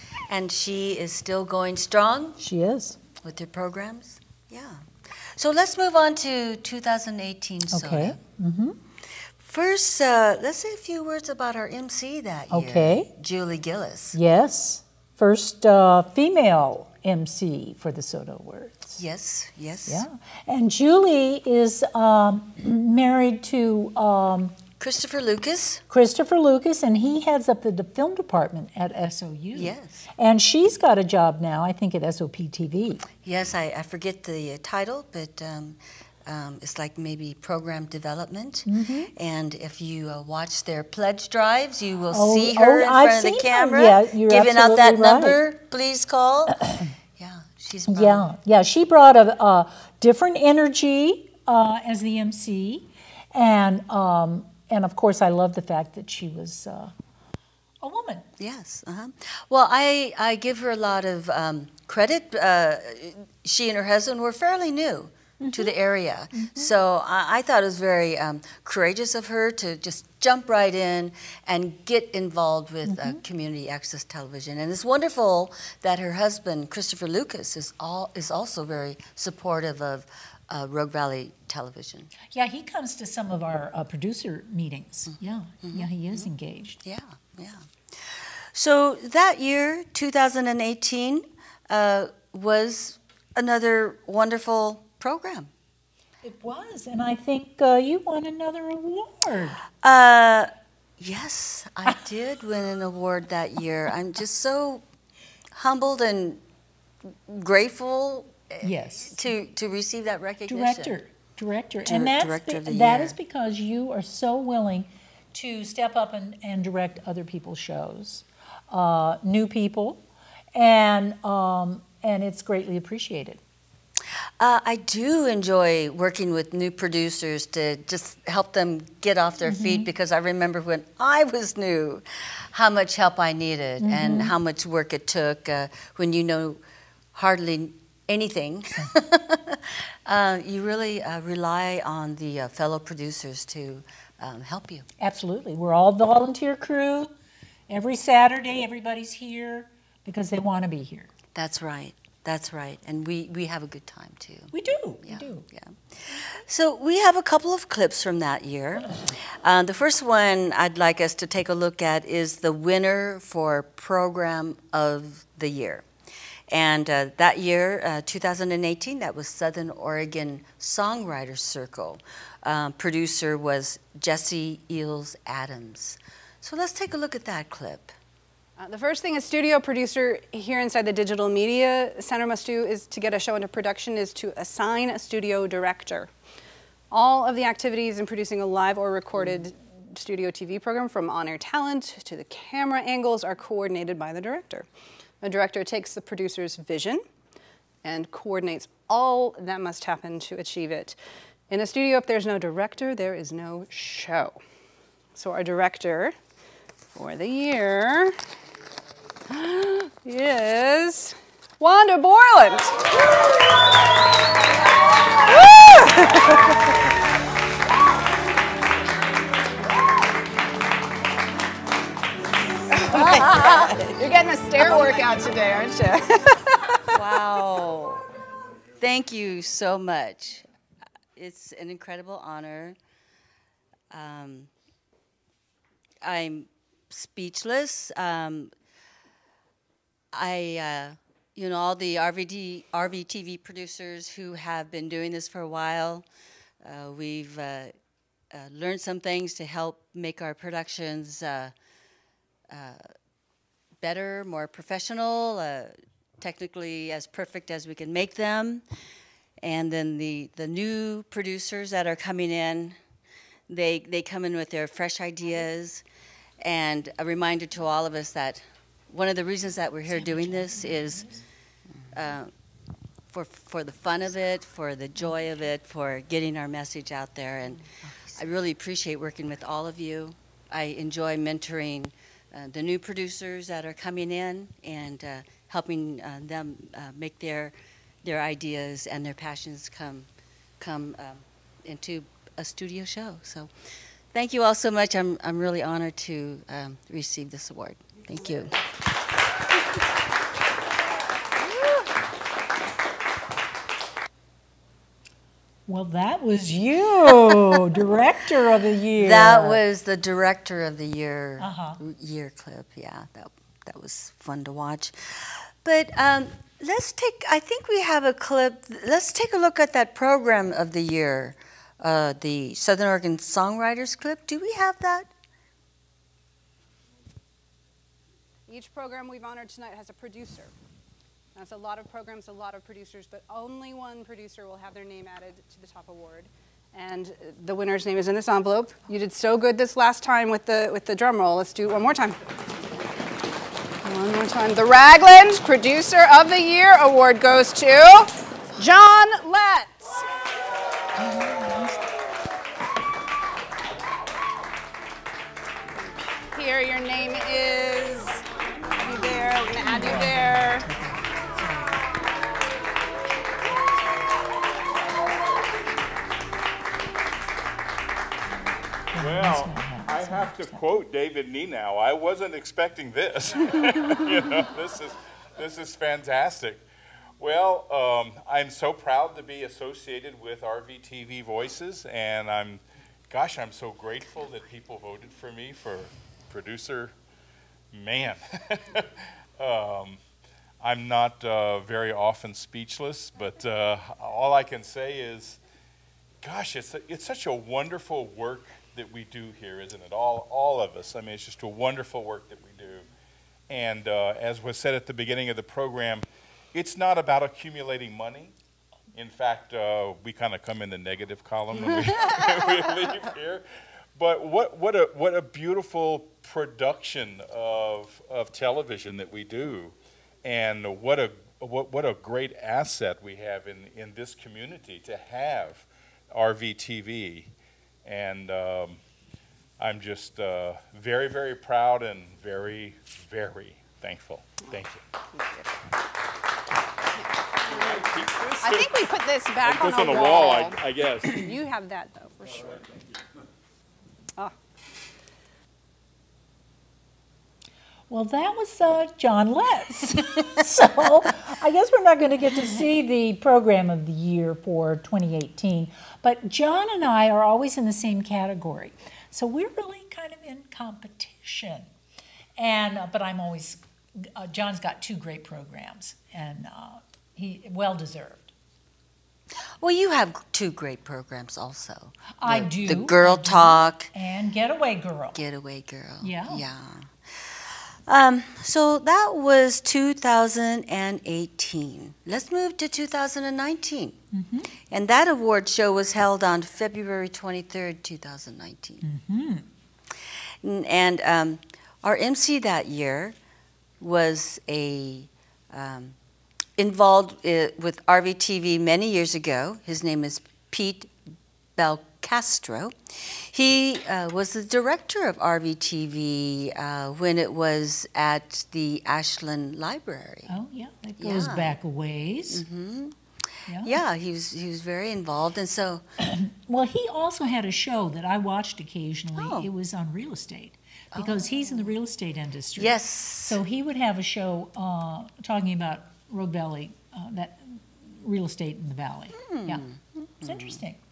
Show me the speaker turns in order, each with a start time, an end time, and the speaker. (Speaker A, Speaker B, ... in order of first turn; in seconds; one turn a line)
Speaker A: 0.3-2.4
Speaker B: 2.4-3.0
Speaker A: 3.2-8.2
Speaker B: 7.7-8.8
Speaker A: 9.4-14.2
Speaker B: 12.5-13.1
Speaker B: 14.1-18.9
Speaker A: 18.9-20.0
Speaker B: 19.9-24.6
Speaker A: 24.8-25.8
Speaker B: 25.9-33.0
Speaker A: 29.5-30.1
Speaker A: 33.2-46.6
Speaker B: 38.6-39.1
Speaker B: 42.1-45.4
Speaker A: 47.2-48.2
Speaker B: 47.9-56.9
Speaker B: 57.8-58.3
Speaker A: 58.4-82.1
Speaker B: 65.4-65.7
Speaker B: 66.3-66.7
Speaker B: 72.9-73.2
Speaker B: 82.3-86.8
Speaker A: 85.6-86.3
Speaker A: 86.8-95.5
Speaker B: 96.2-99.6
Speaker A: 99.8-104.8
Speaker A: 105.5-106.4
Speaker A: 107.3-111.0
Speaker B: 108.6-109.3
Speaker B: 110.5-120.0
Speaker A: 111.9-113.1
Speaker B: 120.5-123.4
Speaker A: 124.4-136.6
Speaker B: 129.4-129.9
Speaker B: 133.8-134.3
Speaker A: 137.1-144.9
Speaker B: 145.0-147.1
Speaker B: 147.7-151.1
Speaker A: 151.3-154.5
Speaker B: 154.5-155.5
Speaker A: 155.0-165.8
Speaker A: 166.5-177.9
Speaker C: 178.6-186.1
Speaker C: 186.9-194.7
Speaker C: 195.2-197.0
Speaker C: 197.8-201.0
Speaker C: 201.5-204.4
Speaker C: 205.1-206.1
Speaker C: 206.9-208.1
Speaker C: 209.3-212.8
Speaker C: 215.2-216.6
Speaker C: 222.7-226.9
Speaker B: 222.9-223.3
Speaker A: 223.3-223.8
Speaker A: 226.9-228.0
Speaker A: 228.8-230.4
Speaker A: 231.2-232.8
Speaker A: 233.9-234.5
Speaker A: 236.0-238.5
Speaker A: 240.1-246.1
Speaker A: 246.6-247.7
Speaker A: 248.3-251.5
Speaker A: 252.5-252.8
Speaker A: 253.8-258.6
Speaker A: 259.4-262.8
Speaker A: 263.5-265.8
Speaker A: 266.4-271.1
Speaker B: 269.9-271.2
Speaker A: 271.9-272.3
Speaker A: 273.1-290.1
Speaker A: 290.6-293.5
Speaker A: 294.1-298.5
Speaker A: 301.4-301.9
Speaker B: 305.7-309.6
Speaker A: 308.9-325.1
Speaker B: 311.4-311.8
Speaker C: 328.5-330.5
Speaker C: 331.3-342.2
Speaker C: 343.8-350.0
Speaker B: 351.1-351.7
Speaker C: 355.7-358.2
Speaker C: 358.8-360.6
Speaker B: 359.6-361.8
Speaker B: 368.9-370.6
Speaker D: 369.0-376.6
Speaker D: 377.2-386.9
Speaker D: 387.7-390.0
Speaker D: 390.6-395.4
Speaker D: 396.2-402.9
Speaker D: 403.5-408.3
Speaker D: 408.9-413.4
Speaker D: 413.9-427.3
Speaker D: 427.8-428.8
Speaker D: 429.6-434.8
Speaker D: 437.4-438.9
Speaker C: 438.4-442.6
Speaker D: 439.4-441.4
Speaker B: 447.9-461.7
Speaker B: 462.4-468.3
Speaker A: 469.6-473.9
Speaker B: 472.2-475.2
Speaker A: 475.1-484.0
Speaker B: 476.0-476.4
Speaker B: 484.1-484.5
Speaker A: 484.7-488.8
Speaker B: 488.8-489.5
Speaker A: 490.4-493.1
Speaker A: 493.8-495.9
Speaker A: 496.6-500.9
Speaker A: 501.6-510.3
Speaker B: 510.3-512.4
Speaker A: 511.0-511.6
Speaker A: 512.3-512.9
Speaker B: 513.5-513.8
Speaker A: 513.6-515.8
Speaker B: 516.0-529.6
Speaker A: 519.1-519.5
Speaker A: 520.9-521.7
Speaker A: 522.6-523.4
Speaker A: 529.2-530.6
Speaker B: 530.2-530.8